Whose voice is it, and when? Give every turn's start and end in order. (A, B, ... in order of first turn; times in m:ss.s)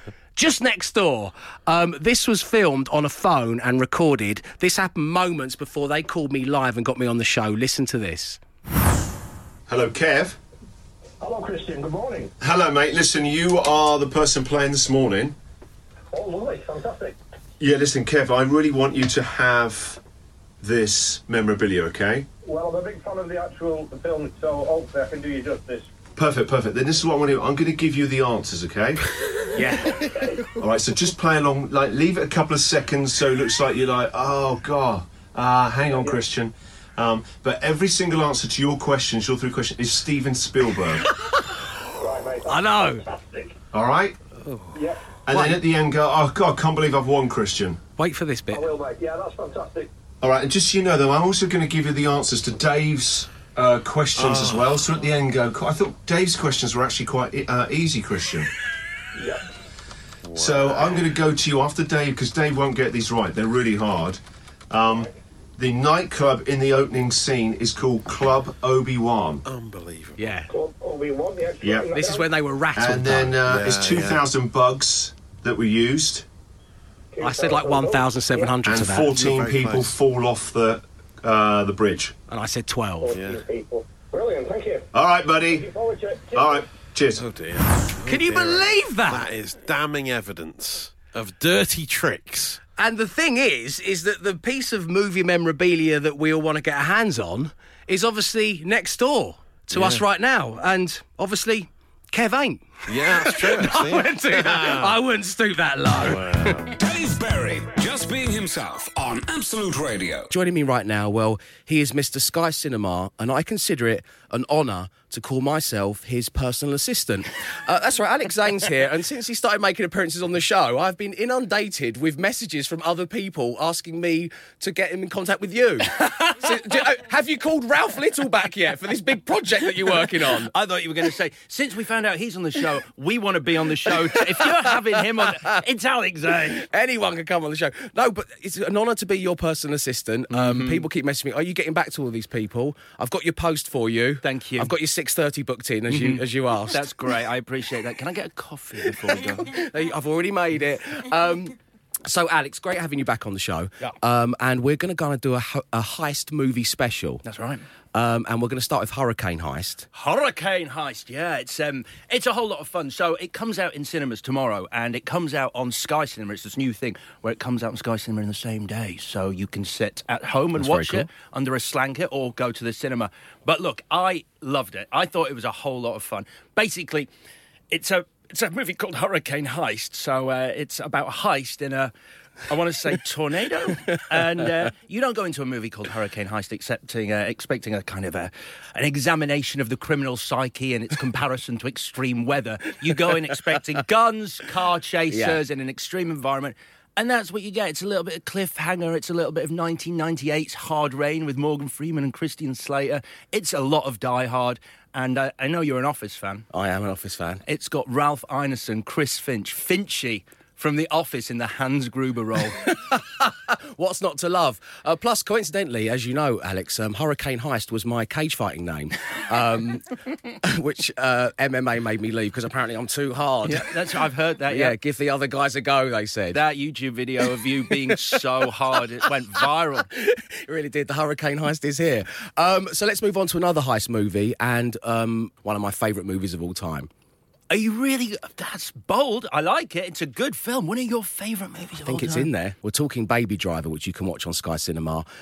0:00.4-0:08.4 A
0:09.7-0:10.4 B
0:11.2-0:12.3 C
0:12.4-0:15.4 B
0:16.1-0:17.2 C
0:17.6-0:20.0 B
0:20.6-0:22.3 B
0:22.4-0:25.9 C
0:26.2-0:29.0 B
0:29.6-0:30.1 A
0:29.9-0:30.5 C
0:30.6-0:41.1 B
0:35.9-0:36.2 C
0:41.0-0:41.6 A
0:42.0-0:43.6 C
0:42.4-0:43.0 A
0:43.7-0:44.2 B
0:44.7-0:45.1 C
0:45.2-0:47.8 B
0:45.3-0:45.6 A
0:48.0-0:48.7 A
0:48.5-0:49.9 C
0:50.2-0:58.5 B
0:54.2-0:54.7 D
0:59.2-0:59.4 C
1:00.2-1:01.1 D
1:00.4-1:09.4 B
1:09.4-1:10.2 D
1:10.2-1:10.5 A
1:10.5-1:12.3 C
1:11.6-1:11.9 B
1:11.9-1:13.4 A
1:12.8-1:16.3 B
1:13.4-1:14.2 D
1:17.1-1:18.6 C
1:17.2-1:19.1 A
1:18.6-1:22.2 B
1:19.0-1:19.9 D
1:22.3-1:23.2 A
1:23.0-1:24.9 C
1:23.1-1:23.4 D
1:24.9-1:25.7 B
1:25.5-1:26.7 C
1:26.3-1:27.2 B
1:27.2-1:32.6 D
1:28.0-1:29.3 A
1:32.8-1:46.5 A
1:39.7-1:40.0 D
1:42.9-1:45.0 D
1:46.0-1:46.8 D
1:46.8-1:50.3 E
1:50.3-2:10.5 A
2:10.3-2:16.7 F
2:13.9-2:15.4 A
2:16.5-2:26.9 A
2:20.3-2:20.9 F
2:24.2-2:24.8 F
2:25.9-2:29.6 F
2:29.1-2:31.6 A
2:32.1-2:37.2 A
2:37.2-2:37.6 F
2:37.9-2:39.9 A
2:39.9-2:57.1 F
2:50.8-2:51.0 A
2:57.7-3:01.9 F
3:02.5-3:26.5 F
3:15.1-3:15.4 A
3:26.5-3:27.4 A
3:27.4-3:32.7 F
3:32.8-3:43.8 A
3:43.4-3:44.8 F
3:44.5-3:46.4 A
3:46.3-3:49.9 F
3:50.0-3:56.9 A
3:57.5-4:02.3 F
4:01.8-4:05.1 A